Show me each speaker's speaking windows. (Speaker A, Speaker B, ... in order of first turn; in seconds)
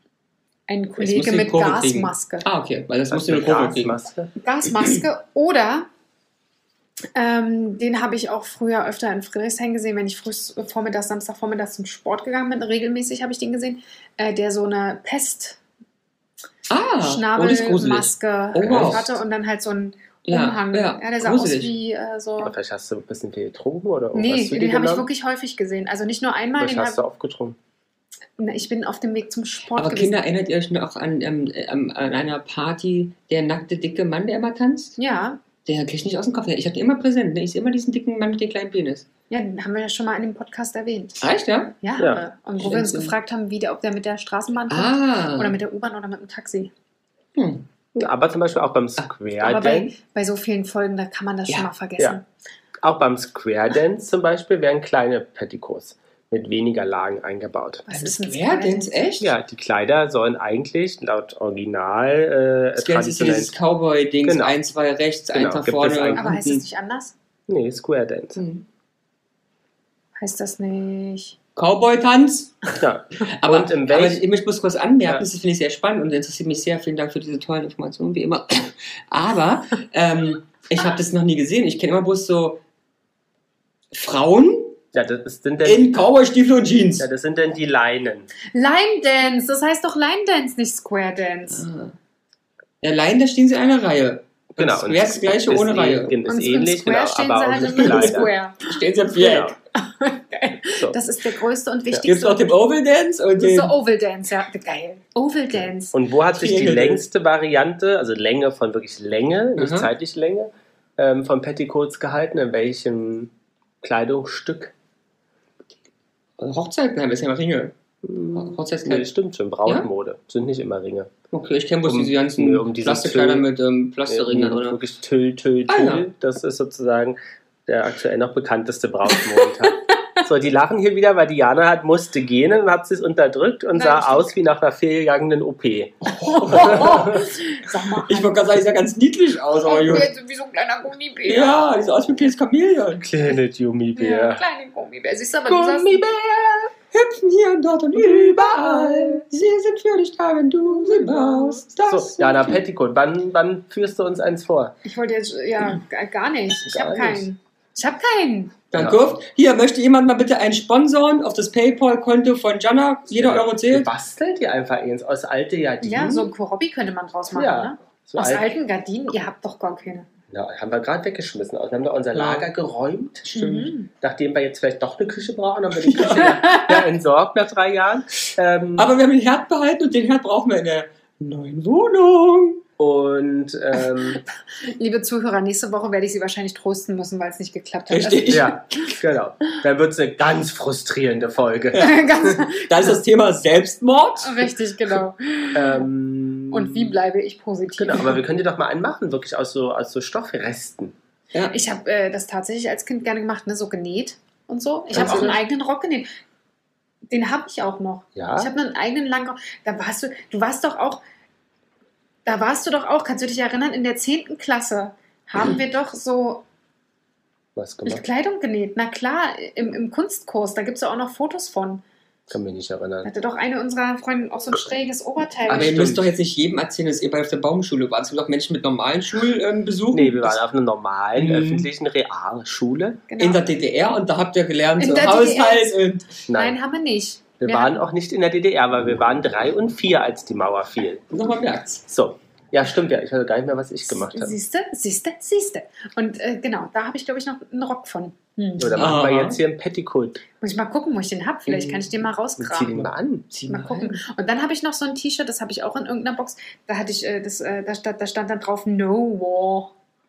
Speaker A: 0.7-2.4, 4.4-5.9, 7.1-15.6, 17.0-22.5, 24.1-27.0, 28.4-30.2, 35.0-35.4, 39.3-41.2, 41.8-46.7, 49.4-52.2, 57.9-59.0, 66.1-67.1, 70.2-71.3, 88.5-91.7, 96.2-98.7, 99.7-102.6, 103.4-106.0, 133.7-134.3, 136.2-138.5, 139.6-141.9, 143.9-146.0, 154.8-158.6, 165.8-170.1, 173.3-173.9, 176.0-176.8, 183.9-188.9, 191.8-192.9, 194.2-195.9, 196.5-198.2, 201.5-206.1, 207.1-211.0, 212.2-216.4, 217.8-221.8, 223.0-225.9, 233.1-233.4, 234.8-235.8, 236.3-237.8, 243.9-248.9, 250.4-252.7, 253.5-259.7
Speaker B: 1.0-4.0, 16.7-19.1, 20.3-21.7, 29.8-35.0, 35.6-39.0, 41.2-41.8, 42.6-43.1, 44.7-45.6, 47.4-47.6, 57.9-59.3, 62.8-66.6, 68.4-68.6, 71.5-82.6, 83.9-84.8, 85.6-87.1, 91.5-91.9, 92.8-96.2, 97.6-99.5, 102.0-103.8, 106.3-107.0, 109.6-109.9, 116.4-117.7, 118.3-119.1, 121.3-124.8, 125.7-126.1, 136.2-137.2, 138.1-140.1, 141.3-143.1, 146.9-152.6, 158.7-163.9, 172.1-172.5, 173.3-173.7, 175.9-176.3, 178.8-182.6, 187.9-188.6, 191.7-194.5, 204.9-205.4, 225.5-230.4, 231.2-231.7, 233.2-236.1, 241.1-241.8, 248.8-249.4, 251.5-251.9, 253.3-254.0
Speaker C: 3.1-4.3, 18.6-19.1, 22.4-25.1, 26.6-27.6, 47.9-49.9, 52.8-57.9, 59.2-63.5, 64.2-64.5, 65.3-66.3, 67.5-68.4, 72.8-74.2, 84.9-86.0, 87.0-88.3, 94.6-98.3, 99.2-99.5, 105.5-114.7, 118.0-121.1, 121.8-123.5, 124.1-137.2, 143.0-144.4, 145.5-146.7, 147.9-149.2, 151.8-154.7, 156.7-157.3, 158.7-159.0, 163.1-166.3, 167.3-168.5, 170.3-173.3, 173.9-178.9, 182.8-184.2, 188.3-192.3, 195.5-196.9, 197.8-200.9, 204.9-205.4, 208.1-208.5, 217.6-218.0, 222.3-223.1, 225.5-226.1, 229.9-233.0, 236.3-236.6, 237.4-241.0, 241.9-244.3, 248.6-250.2, 252.4-253.2